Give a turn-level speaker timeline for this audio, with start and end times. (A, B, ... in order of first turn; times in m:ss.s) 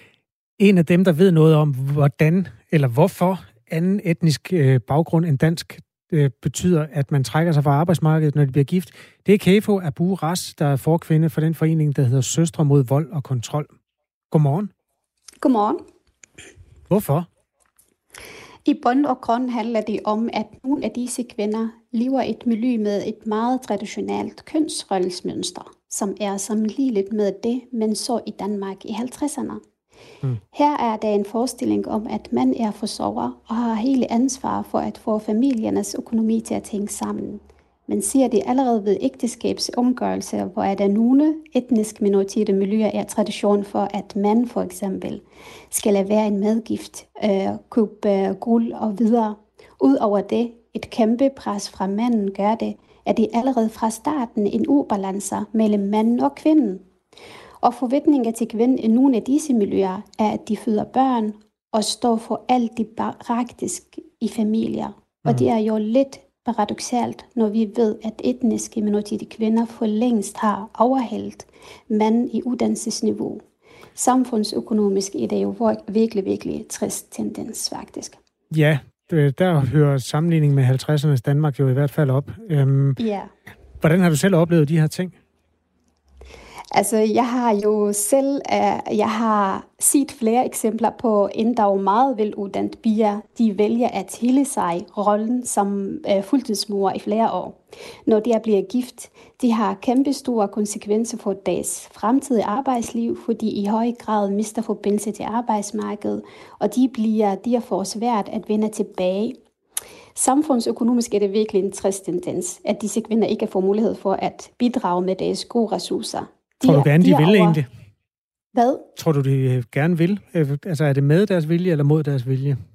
0:00.6-0:13.7 A
0:14.3-0:14.7 A
0:15.4-0:15.8 B
0:16.9-0:17.3 A
0:18.6-0:29.6 B
0:30.5-0:56.8 B
0:57.6-1:13.4 B
1:14.0-1:18.2 B
1:18.5-1:23.0 A
1:23.0-1:23.3 B
1:23.8-1:25.1 A
1:26.7-1:49.4 B
1:50.2-1:57.6 B
1:56.6-1:57.7 A
1:58.5-1:58.9 B
1:59.0-2:02.6 A